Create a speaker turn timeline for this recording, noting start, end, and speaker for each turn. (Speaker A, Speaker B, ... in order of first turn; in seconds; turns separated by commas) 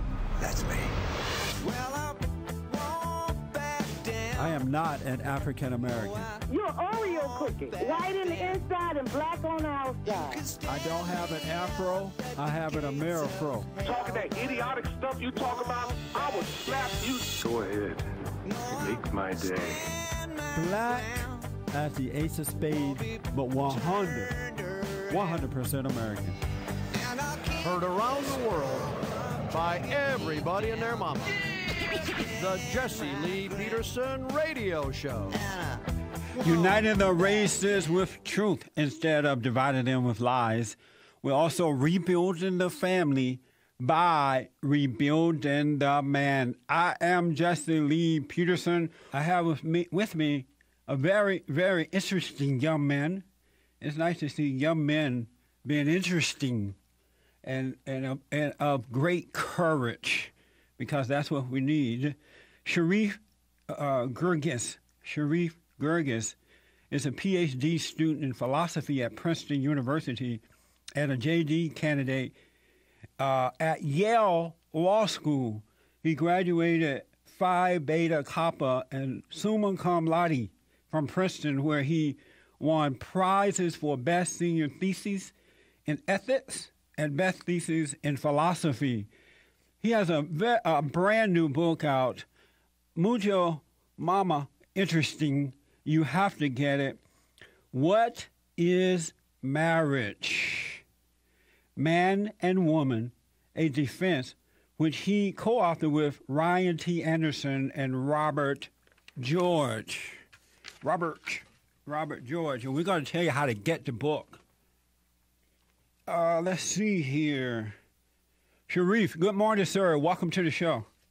Speaker A: 0.4-0.9, Speaker B: 1.6-2.1, Speaker B: 2.8-4.3, Speaker C: 4.3-6.3, Speaker D: 6.5-10.5, Speaker C: 10.6-13.8, Speaker A: 13.8-17.3, Speaker E: 17.3-18.1, Speaker E: 18.6-19.8, Speaker B: 19.6-20.5, Speaker C: 20.5-24.4, Speaker C: 25.1-26.4, Speaker B: 27.1-31.4, Speaker B: 32.1-35.5, Speaker C: 36.4-53.2, Speaker C: 53.8-56.8, Speaker C: 57.4-63.2, Speaker C: 63.7-66.3, Speaker C: 66.9-70.4, Speaker C: 71.0-72.3, Speaker C: 73.2-85.3, Speaker C: 85.8-89.1, Speaker C: 89.8-92.2, Speaker C: 93.0-97.0, Speaker C: 97.7-100.8, Speaker C: 101.8-110.2, Speaker C: 110.8-114.4, Speaker C: 116.1-117.7, Speaker C: 118.7-120.8